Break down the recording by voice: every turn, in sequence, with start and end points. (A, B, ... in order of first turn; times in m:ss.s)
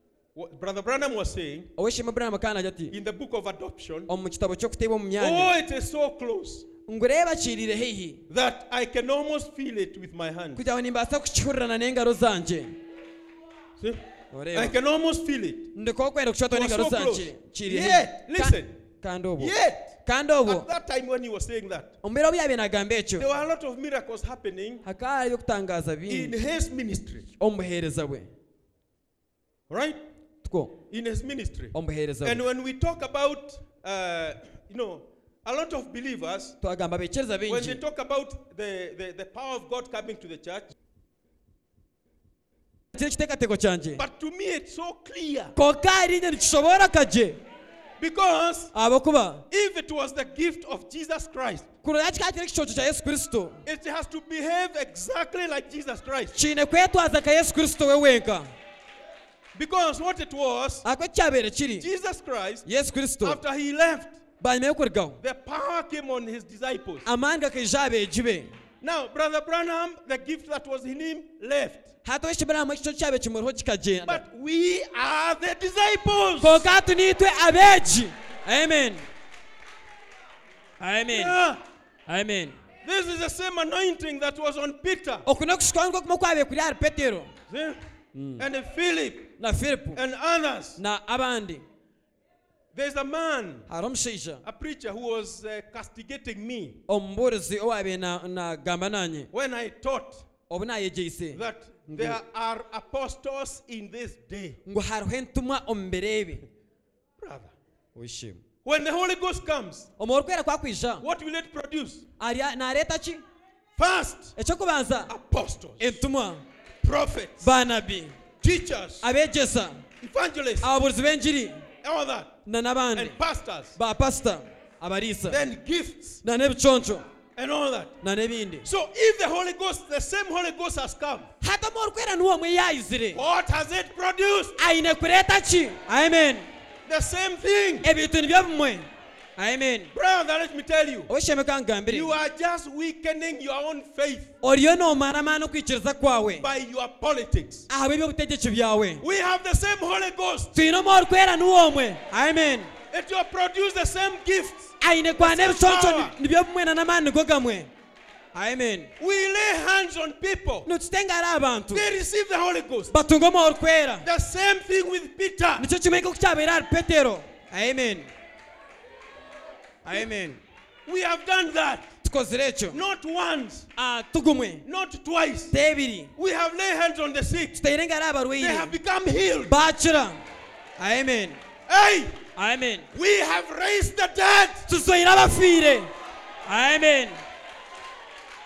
0:00.4-0:01.7 A
0:01.8-0:02.9 B
0:02.9-0:04.1 A
0:04.1-0:05.5 B
0:05.2-0:06.7 A
0:06.9-0:08.2 B
0:08.3-0:10.6 A
0:10.6-0:12.8 B
0:14.3-0:14.8 B
0:14.5-0:15.7 A
0:15.8-0:20.7 B
0:16.5-0:18.8 A
0:19.4-0:21.9 A
0:22.0-0:23.3 B
0:23.2-0:24.8 A
0:24.8-0:26.4 B
0:26.1-0:27.3 A
0:27.4-0:28.3 B
0:29.7-0:30.0 A
0:30.4-0:30.8 B
0:30.9-0:36.6 A
0:31.7-0:32.4 B
0:36.6-0:37.8 B
0:37.5-0:40.7 A
0:42.9-0:44.0 B
0:44.0-0:45.5 A
0:45.6-0:47.4 B
0:48.0-0:48.7 A
0:48.7-0:49.4 B
0:49.5-0:51.7 A
0:51.8-0:53.6 B
0:53.7-0:56.4 A
0:56.3-0:58.5 B
0:59.6-1:00.8 A
1:00.8-1:01.9 B
1:01.8-1:02.6 A
1:02.7-1:03.4 B
1:03.2-1:04.2 A
1:04.4-1:05.2 B
1:05.2-1:07.1 A
1:07.1-1:08.5 B
1:08.8-1:11.9 A
1:12.0-1:14.2 B
1:14.0-1:16.7 A
1:16.4-1:19.0 B
1:20.8-1:21.4 B
1:21.1-1:21.6 A
1:22.1-1:22.6 B
1:22.8-1:25.3 A
1:25.2-1:27.3 B
1:27.5-1:27.8 A
1:28.1-1:28.4 B
1:28.4-1:29.3 A
1:29.4-1:30.0 B
1:30.0-1:30.8 A
1:30.8-1:31.6 B
1:32.7-1:33.7 A
1:33.7-1:34.4 B
1:34.4-1:36.8 A
1:36.9-1:39.3 B
1:39.3-1:40.3 A
1:40.5-1:42.2 B
1:41.3-1:44.6 A
1:44.7-1:46.5 B
1:47.2-1:47.5 A
1:48.0-1:48.4 B
1:48.6-1:49.9 A
1:50.0-1:51.0 B
1:51.0-1:52.1 A
1:52.2-1:53.2 B
1:53.8-1:54.3 A
1:54.4-1:55.1 B
1:55.1-1:56.0 A
1:55.8-1:56.4 B
1:56.8-1:57.5 A
1:57.4-1:58.2 B
1:58.4-1:59.1 A
1:59.0-1:59.8 B
2:00.0-2:00.7 A
2:00.6-2:01.6 B
2:01.8-2:02.4 A
2:02.5-2:03.2 B
2:02.9-2:03.8 A
2:03.8-2:05.4 B
2:05.3-2:06.2 A
2:06.2-2:07.0 B
2:07.4-2:08.0 A
2:08.0-2:08.7 B
2:08.6-2:11.3 A
2:11.4-2:13.2 B
2:13.1-2:14.6 A
2:14.6-2:16.5 B
2:16.9-2:17.9 A
2:17.8-2:19.9 B
2:19.9-2:21.1 A
2:21.1-2:22.1 B
2:21.9-2:24.3 A
2:24.4-2:26.5 B
2:26.4-2:27.7 A
2:27.7-2:29.0 B
2:29.0-2:30.5 A
2:30.5-2:32.7 B
2:32.9-2:36.2 A
2:34.8-2:37.7 B
2:38.3-2:38.9 B
2:39.0-2:40.7 A
2:40.7-2:41.9 B
2:41.7-2:42.9 A
2:42.9-2:44.1 B
2:44.0-2:45.7 A
2:45.6-2:48.1 B
2:49.8-2:50.4 B
2:50.9-2:51.9 A
2:52.0-2:52.8 B
2:52.7-2:53.7 A
2:53.8-2:54.6 B
2:54.6-2:55.5 A
2:55.5-2:56.1 B
2:56.2-2:57.6 A
2:57.5-2:58.8 B
2:58.4-2:59.5 A
2:59.5-3:00.2 B
3:00.8-3:01.4 B
3:01.7-3:02.2 A
3:02.4-3:02.9 B
3:02.9-3:04.7 A
3:04.7-3:05.9 B
3:06.5-3:07.2 B